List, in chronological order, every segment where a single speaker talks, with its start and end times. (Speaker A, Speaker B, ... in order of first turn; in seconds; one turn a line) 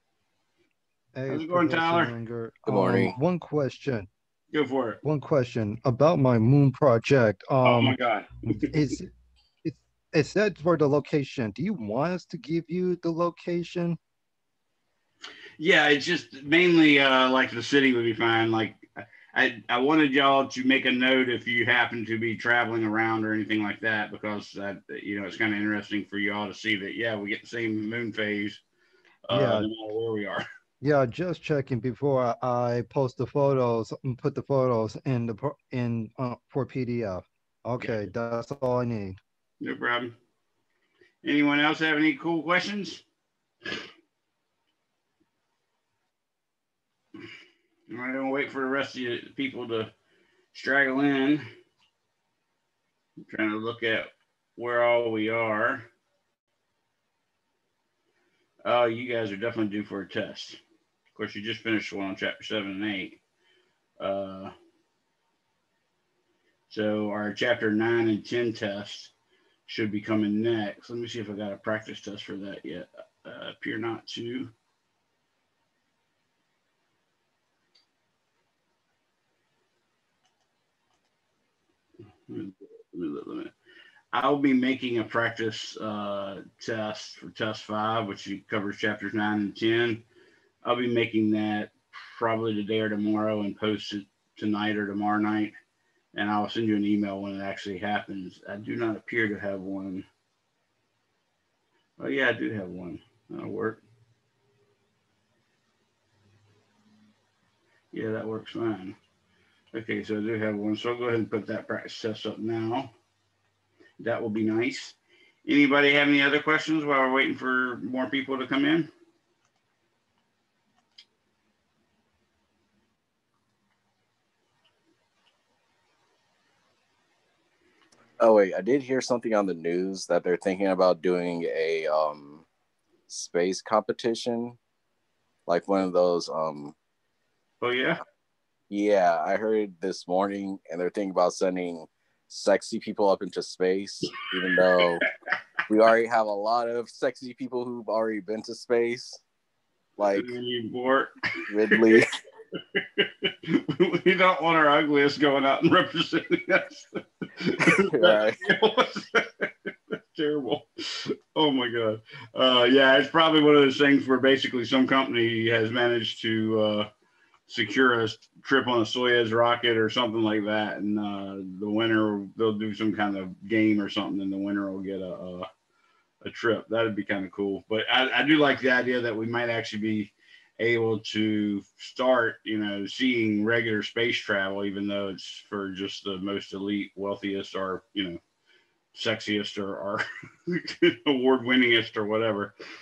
Speaker A: 1.1-4.1
Speaker B: 1.3-2.1
Speaker C: 2.7-3.1
Speaker B: 4.5-5.0
Speaker A: 5.0-8.0
Speaker B: 7.6-8.9
Speaker A: 8.5-9.1
Speaker A: 9.6-14.0
Speaker B: 15.6-28.6
Speaker B: 29.2-30.4
Speaker A: 29.3-29.7
Speaker A: 30.8-39.2
Speaker B: 37.8-38.1
Speaker B: 39.6-40.1
Speaker B: 41.2-43.0
Speaker B: 47.9-49.9
Speaker B: 50.5-51.5
Speaker B: 53.3-55.9
Speaker B: 58.6-60.6
Speaker B: 61.1-63.2
Speaker B: 64.0-64.5
Speaker B: 66.7-69.1
Speaker B: 69.7-74.5
Speaker B: 82.3-83.5
Speaker B: 84.1-90.0
Speaker B: 90.6-95.5
Speaker B: 96.1-100.0
Speaker B: 102.0-103.8
Speaker B: 107.9-109.0
Speaker B: 109.7-112.9
Speaker B: 114.0-118.9
Speaker C: 128.2-132.4
Speaker C: 133.1-134.6
Speaker C: 135.5-136.7
Speaker B: 137.6-138.0
Speaker C: 138.7-145.1
Speaker C: 145.7-149.2
Speaker C: 150.0-150.3
Speaker B: 150.1-152.0
Speaker C: 151.5-152.1
Speaker B: 152.7-159.5
Speaker C: 157.6-158.4
Speaker B: 160.1-166.9
Speaker B: 167.5-175.5
Speaker B: 176.2-188.2
Speaker B: 188.9-192.5